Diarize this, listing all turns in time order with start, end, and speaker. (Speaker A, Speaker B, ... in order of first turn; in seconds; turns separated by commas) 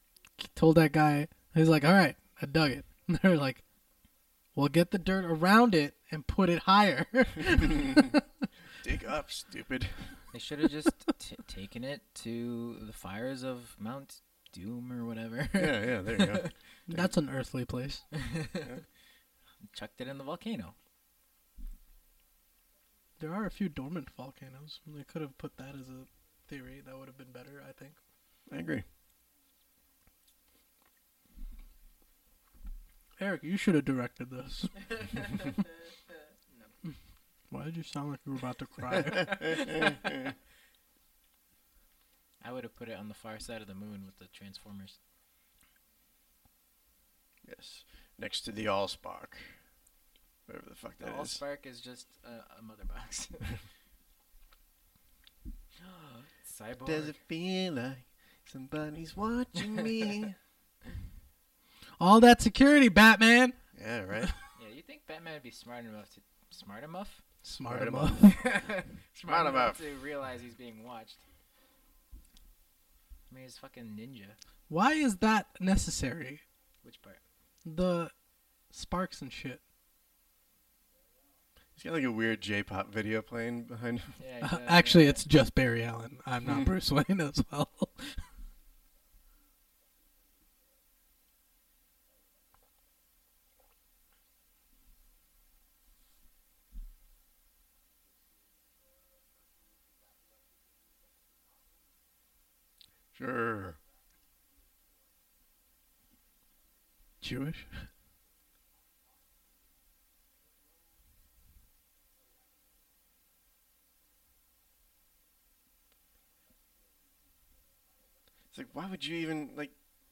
Speaker A: 0.4-3.6, Speaker A: 4.5-8.2, Speaker B: 7.8-8.1, Speaker B: 8.8-10.2, Speaker C: 10.3-16.5, Speaker B: 15.6-17.1, Speaker A: 16.9-18.1, Speaker C: 18.1-18.7, Speaker C: 19.7-20.8, Speaker A: 23.2-28.0, Speaker B: 28.5-28.9, Speaker A: 33.2-34.8, Speaker A: 37.5-39.4, Speaker B: 39.0-40.4, Speaker C: 39.3-40.0, Speaker C: 42.4-45.0, Speaker B: 47.5-49.6, Speaker B: 50.5-51.4, Speaker C: 51.0-53.7, Speaker C: 55.8-57.2, Speaker B: 56.9-60.4, Speaker A: 62.0-63.6, Speaker B: 63.8-64.3, Speaker A: 64.2-64.4, Speaker C: 64.6-67.3, Speaker A: 67.4-68.4, Speaker B: 67.7-68.5, Speaker C: 68.2-71.2, Speaker B: 69.2-69.8, Speaker C: 73.3-74.4, Speaker A: 74.7-76.4, Speaker C: 76.8-77.2, Speaker A: 77.7-78.1, Speaker A: 78.7-79.6, Speaker B: 81.8-84.2, Speaker C: 84.2-85.2, Speaker A: 84.4-88.3, Speaker B: 103.1-103.8, Speaker A: 107.2-107.9, Speaker B: 118.5-119.8